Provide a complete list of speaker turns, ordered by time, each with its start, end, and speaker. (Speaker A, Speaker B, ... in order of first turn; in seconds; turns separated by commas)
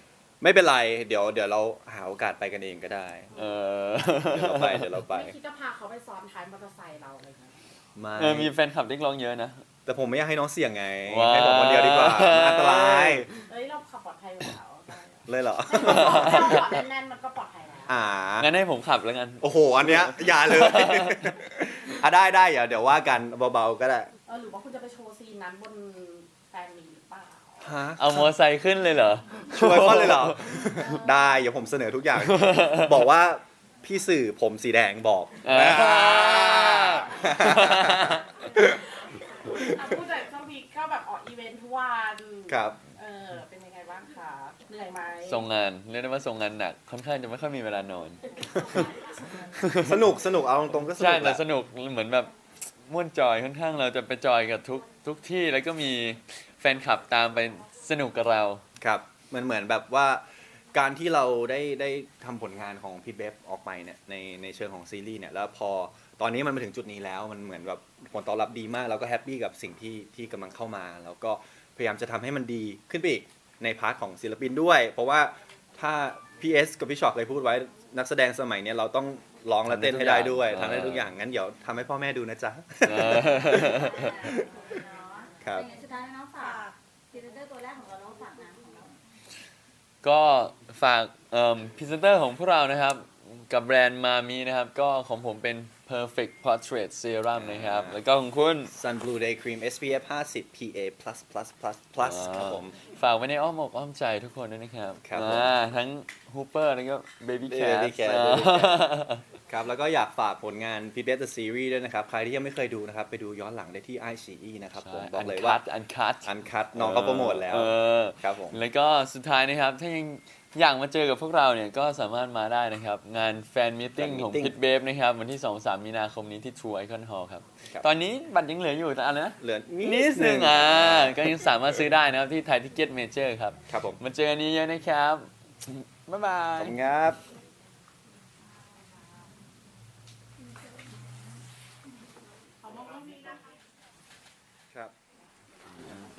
Speaker A: 0.4-3.3, Speaker B: 3.3-3.6, Speaker C: 3.4-4.9, Speaker A: 4.3-5.3, Speaker B: 5.1-7.8, Speaker A: 8.0-8.5, Speaker C: 8.2-9.6, Speaker A: 9.9-13.3, Speaker C: 11.1-13.4, Speaker B: 13.4-18.0, Speaker A: 15.3-16.7, Speaker C: 15.8-16.7, Speaker A: 17.9-18.5, Speaker C: 18.4-21.4, Speaker A: 19.4-24.1, Speaker B: 24.3-27.8, Speaker A: 27.6-28.3, Speaker C: 28.0-30.4, Speaker A: 29.5-38.8, Speaker C: 32.3-33.0, Speaker C: 35.4-38.3, Speaker B: 38.4-45.5, Speaker A: 42.5-42.8, Speaker C: 45.3-48.9, Speaker B: 48.4-49.4, Speaker A: 48.5-49.0, Speaker C: 49.5-50.0, Speaker A: 49.8-51.4, Speaker C: 51.0-52.3, Speaker C: 52.9-58.6, Speaker A: 58.8-84.7, Speaker C: 79.7-81.1, Speaker C: 82.8-84.3, Speaker D: 83.7-89.0, Speaker B: 84.7-85.2, Speaker A: 85.4-85.7, Speaker B: 86.4-86.7, Speaker C: 90.0-98.7, Speaker A: 97.3-98.0, Speaker A: 98.7-102.8, Speaker C: 102.0-109.2, Speaker A: 105.0-105.5, Speaker A: 107.5-108.9, Speaker A: 109.5-115.6, Speaker C: 114.8-136.8, Speaker A: 116.2-118.6, Speaker A: 124.0-124.5, Speaker A: 129.4-131.3, Speaker A: 133.7-134.0, Speaker A: 136.6-137.2, Speaker B: 142.6-143.5, Speaker C: 145.8-146.1